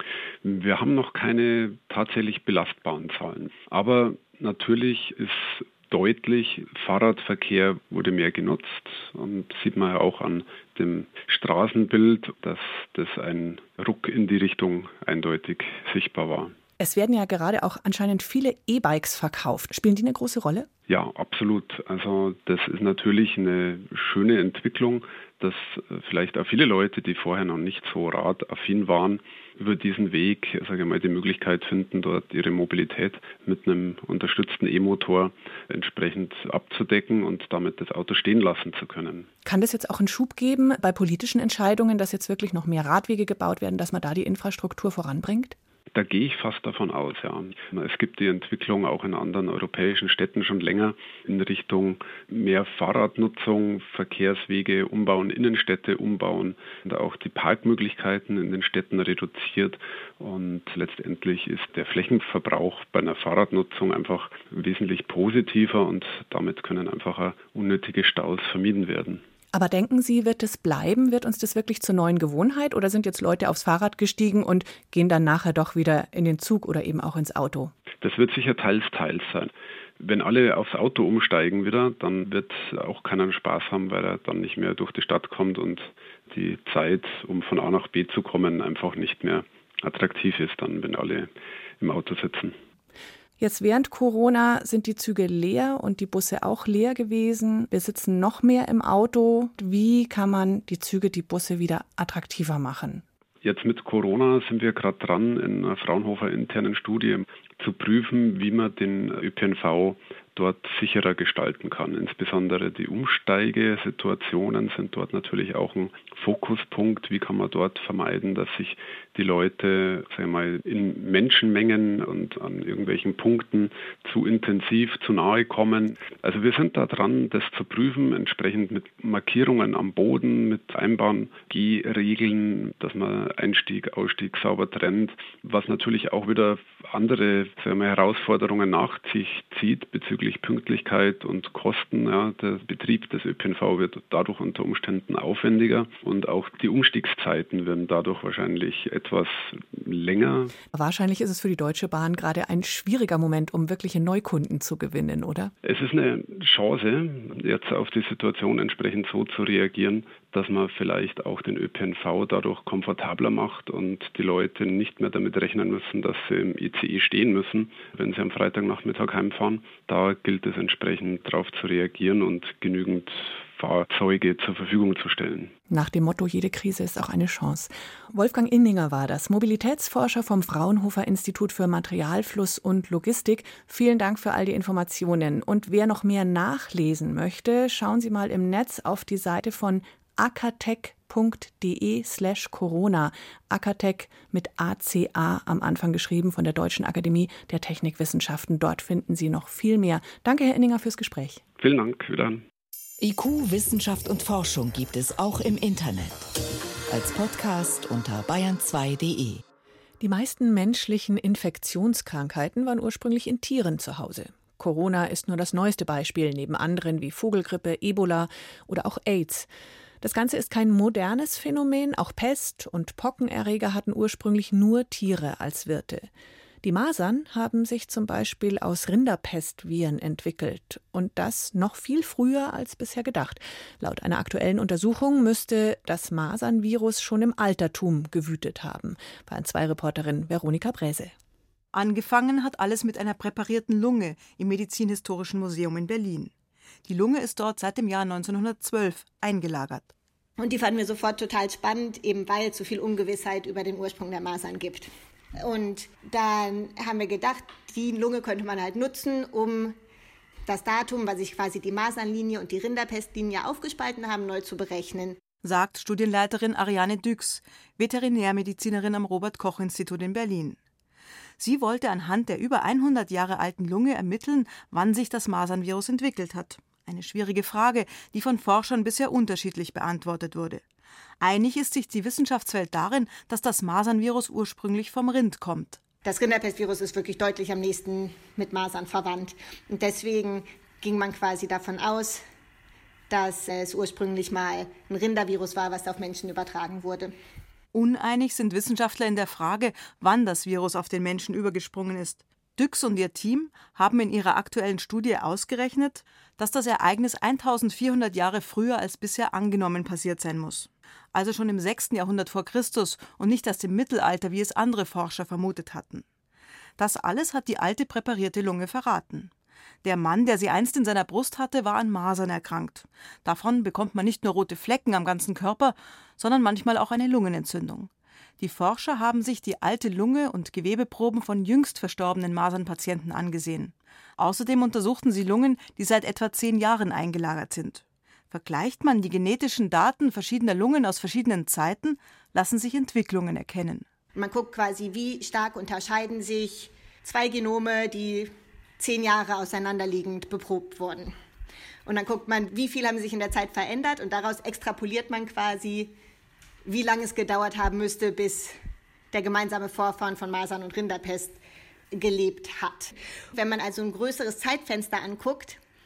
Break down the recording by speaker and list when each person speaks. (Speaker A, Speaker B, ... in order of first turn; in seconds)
Speaker A: 0.4-16.5, 20.9-39.3, 46.0-69.2, 78.0-91.3, 91.8-92.5, 103.4-150.5, 155.6-175.5, 201.6-202.4
Speaker B: 16.8-20.7, 39.5-45.6, 69.5-77.7, 93.4-103.0, 150.7-155.5, 175.7-201.4, 210.0-219.5, 220.0-226.1, 226.6-241.1
Speaker C: 203.0-206.3, 206.9-209.4
Speaker D: 241.7-246.3, 246.9-249.9, 265.4-270.6, 271.4-280.6, 281.2-285.8, 297.7-316.1, 316.8-319.3, 319.8-343.9
Speaker E: 250.4-254.9, 255.4-259.8, 260.5-265.2, 286.0-292.2, 293.1-297.1, 344.1-351.1, 351.9-355.9, 356.7-358.5, 359.1-361.4, 361.9-365.6